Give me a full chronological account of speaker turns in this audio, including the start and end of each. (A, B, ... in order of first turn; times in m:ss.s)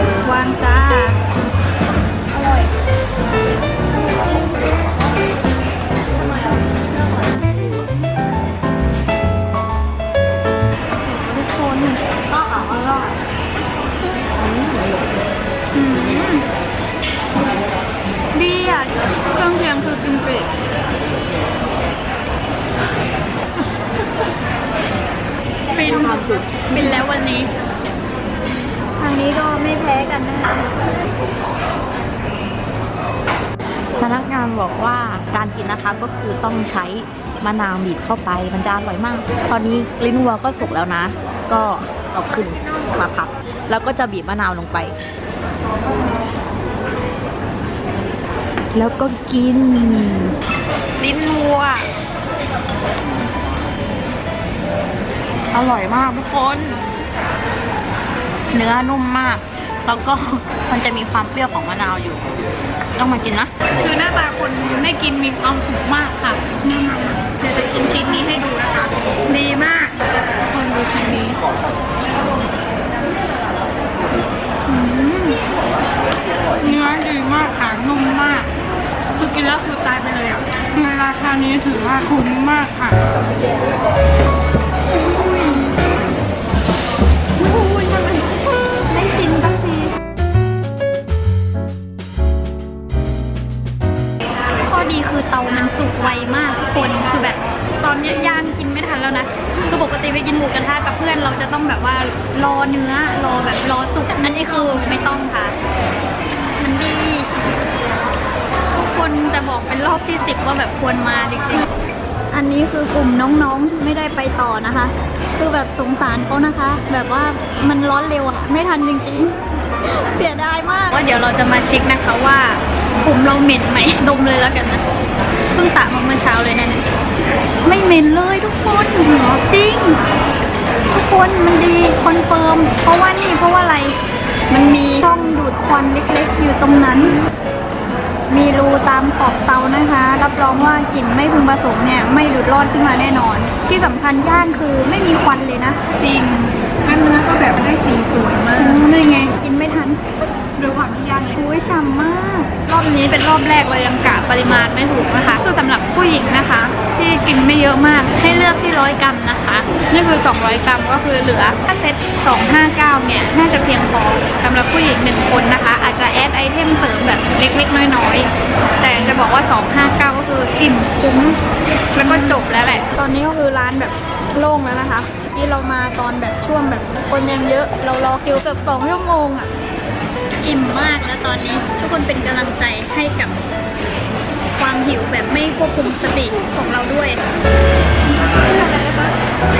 0:00.2-0:01.2 A
0:11.0-0:12.0 A
0:14.4-0:15.0 B
0:15.7-0:16.4 A
0:18.3-0:20.5 A
0:25.7-0:27.5 A
0:25.9-0:26.6 B
0:29.0-0:30.8 A
0:33.9-0:45.0 B
0:48.7-0:50.3 B
0:51.0-0:51.9 B
0:55.5-0:56.8 B
0:58.5-1:02.3 B
1:02.9-1:03.5 B
1:03.8-1:10.0 C
1:10.5-1:11.4 C
1:14.7-1:15.3 C
1:14.8-1:15.2 A
1:16.6-1:18.5 C
1:19.2-1:23.0 C
1:25.2-1:25.5 A
1:27.7-1:28.0 C
1:34.6-1:45.5 A
1:46.5-1:47.3 A
1:48.7-1:51.6 A
1:52.3-2:04.8 A
2:05.5-2:06.8 A
2:07.6-2:10.0 A
2:10.9-2:14.0 A
2:14.5-2:17.1 A
2:18.3-2:25.8 A
2:25.9-2:28.9 C
2:28.5-2:30.0 A
2:30.6-2:48.3 A
2:48.8-2:51.4 A
2:52.0-2:59.5 A
2:52.0-2:52.4 C
3:00.4-3:03.4 A
3:04.5-3:07.2 A